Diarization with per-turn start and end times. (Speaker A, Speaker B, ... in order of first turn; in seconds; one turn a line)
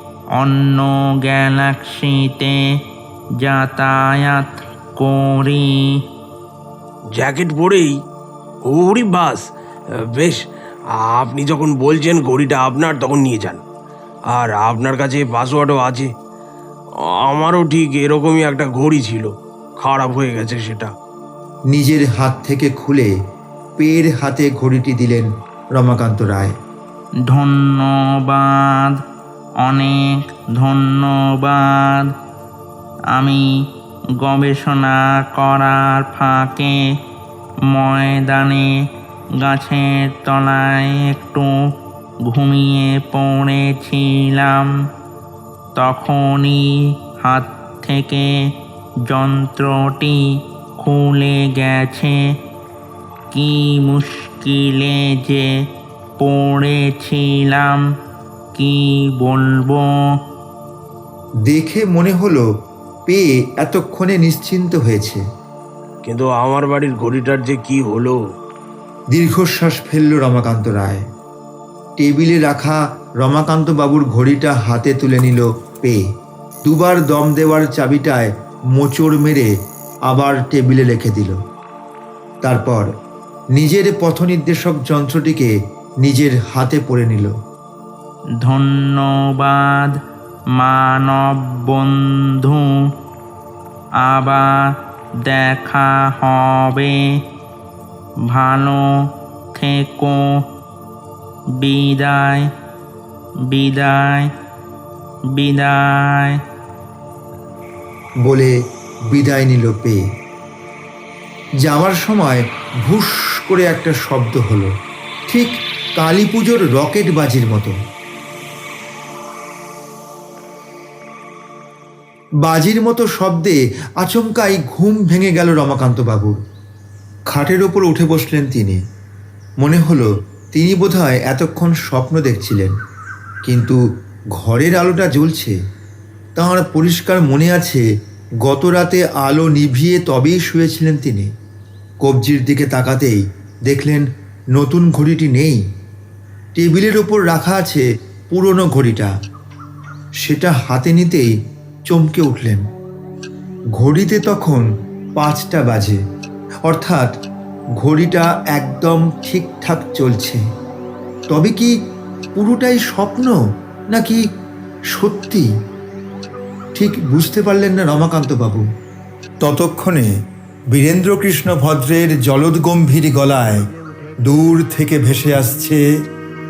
Speaker A: 0.4-2.6
Speaker A: 3.4-6.0
Speaker B: 7.2-8.0
Speaker B: 8.7-9.4
Speaker B: 10.2-10.4
Speaker B: 10.9-13.6
Speaker B: 14.3-16.1
Speaker B: 17.0-20.9
Speaker C: 21.7-23.1
Speaker C: 23.8-26.6
Speaker A: 27.3-29.0
Speaker A: 29.6-32.1
Speaker A: 33.1-33.5
Speaker A: 34.2-36.8
Speaker A: 37.7-38.7
Speaker A: 39.4-41.5
Speaker A: 42.3-44.7
Speaker A: 45.8-46.7
Speaker A: 47.2-48.4
Speaker A: 49.1-50.3
Speaker A: 50.8-52.2
Speaker A: 53.3-55.5
Speaker A: 56.2-57.8
Speaker A: 58.5-60.0
Speaker C: 61.5-62.5
Speaker C: 63.1-65.2
Speaker B: 66.0-68.2
Speaker C: 69.1-71.1
Speaker C: 72.0-76.1
Speaker C: 76.7-79.5
Speaker C: 80.1-81.4
Speaker C: 82.4-82.9
Speaker C: 83.5-87.3
Speaker A: 88.4-90.0
Speaker A: 90.6-92.8
Speaker A: 94.0-97.0
Speaker A: 98.3-98.8
Speaker A: 99.5-100.2
Speaker A: 101.6-102.5
Speaker A: 103.5-104.3
Speaker A: 105.3-106.4
Speaker C: 108.2-108.5
Speaker C: 109.1-110.0
Speaker C: 111.6-114.7
Speaker C: 115.3-117.8
Speaker C: 122.4-126.4
Speaker C: 127.3-128.8
Speaker C: 129.6-132.8
Speaker C: 133.4-133.8
Speaker C: 134.3-135.6
Speaker C: 136.4-137.8
Speaker C: 138.4-141.3
Speaker C: 142.0-145.6
Speaker C: 146.6-149.1
Speaker C: 150.2-151.3
Speaker C: 151.9-152.7
Speaker C: 153.8-156.0
Speaker C: 156.7-157.1
Speaker C: 157.8-160.4
Speaker C: 161.3-161.7
Speaker C: 162.3-163.4
Speaker C: 163.9-164.2
Speaker C: 164.9-165.5
Speaker C: 166.8-168.7
Speaker C: 169.4-170.1
Speaker C: 170.7-173.7
Speaker C: 174.2-175.8